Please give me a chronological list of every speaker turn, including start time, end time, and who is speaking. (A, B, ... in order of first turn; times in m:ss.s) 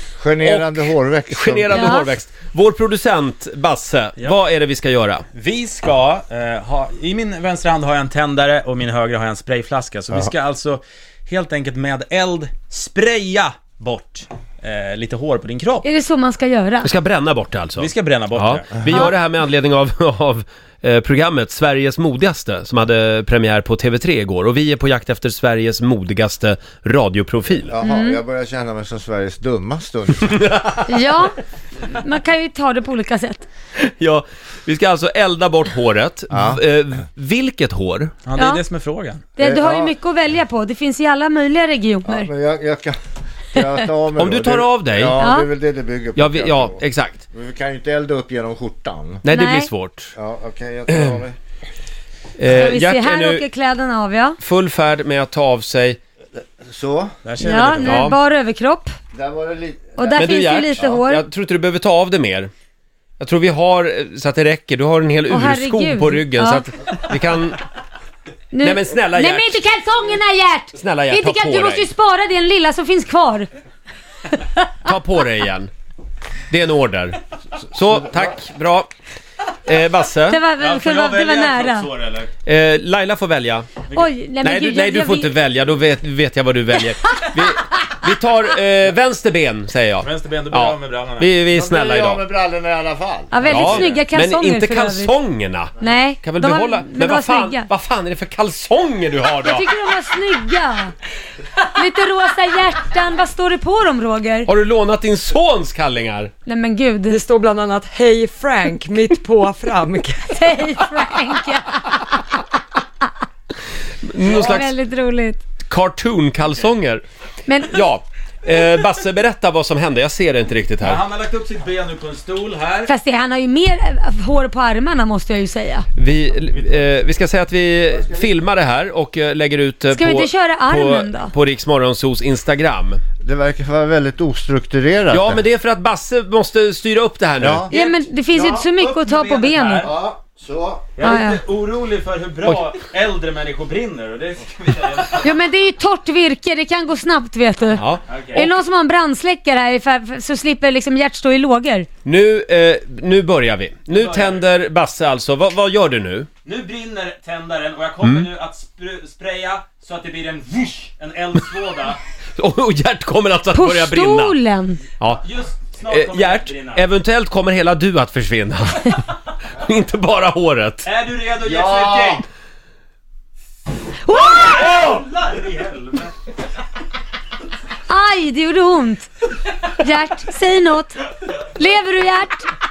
0:00.2-0:02.0 A
0:00.4-0:05.2 B
0:01.7-0:02.1 C
0:05.3-0:15.9 D
0:15.8-0:16.9 C
0:16.8-0:27.7 B
0:17.8-0:18.8 D
0:27.7-0:30.4 A
0:27.8-0:28.2 C
0:30.3-0:31.0 B
0:30.9-0:33.5 C
0:33.8-0:38.1 B
0:36.3-0:36.6 A
0:38.3-0:39.2 D
0:38.4-0:38.6 C
0:39.4-0:42.3 C
0:39.4-0:39.9 A
0:42.0-0:43.0 A
0:43.5-0:49.2 A
0:44.2-0:45.2 B
0:45.2-0:45.5 C
0:46.2-0:47.2 B
0:49.2-0:50.1 B
0:49.3-0:49.7 C
0:50.2-0:51.4 A
0:50.9-0:51.2 B
0:52.4-0:53.4 B
0:52.4-0:54.4 C
0:54.4-0:56.0 B
0:56.6-0:57.1 A
0:57.2-0:58.1 D
0:57.4-0:58.9 C
0:57.8-0:58.2 B
0:59.1-1:00.2 A
1:00.0-1:01.2 C
1:00.1-1:02.5 B
1:03.2-1:07.6 B
1:05.3-1:06.6 C
1:08.5-1:13.5 C
1:08.6-1:09.6 B
1:10.8-1:11.9 B
1:14.3-1:15.0 C
1:14.8-1:15.7 B
1:16.5-1:17.2 B
1:17.7-1:18.9 B
1:19.6-1:20.4 B
1:20.3-1:21.9 C
1:20.6-1:22.3 D
1:22.4-1:23.7 B
1:23.9-1:25.3 C
1:24.4-1:32.2 B
1:30.0-1:31.3 D
1:31.5-1:33.4 A
1:33.3-1:35.1 C
1:33.5-1:34.0 D
1:33.5-1:39.7 B
1:35.8-1:37.7 C
1:39.4-1:40.9 C
1:41.6-1:44.5 C
1:44.5-1:46.3 B
1:46.5-1:47.2 C
1:47.1-1:50.3 E
1:50.3-1:52.4 C
1:54.0-1:54.7 B
1:54.3-1:55.4 C
1:55.7-1:57.0 B
1:57.5-1:57.8 C
1:57.6-2:01.0 B
2:00.8-2:02.9 D
2:02.9-2:05.9 C
2:06.0-2:13.0 B
2:07.9-2:08.3 A
2:09.9-2:11.4 C
2:13.2-2:15.4 A
2:15.1-2:18.0 B
2:17.4-2:17.7 A
2:17.7-2:19.9 C
2:18.3-2:19.9 D
2:19.8-2:20.9 A
2:21.0-2:25.4 D
2:21.0-2:21.4 C
2:25.2-2:31.9 C
2:28.1-2:28.5 D
2:32.0-2:36.3 B
2:33.9-2:34.4 D
2:36.4-2:42.0 D
2:38.0-2:38.3 B
2:42.4-2:44.4 B
2:43.5-2:44.8 C
2:45.2-2:46.9 D
2:45.9-2:50.9 B
2:50.8-2:52.3 D
2:51.4-2:52.2 A
2:54.1-2:54.7 C
2:54.1-2:56.2 D
2:57.9-2:59.1 C
2:59.7-3:02.5 C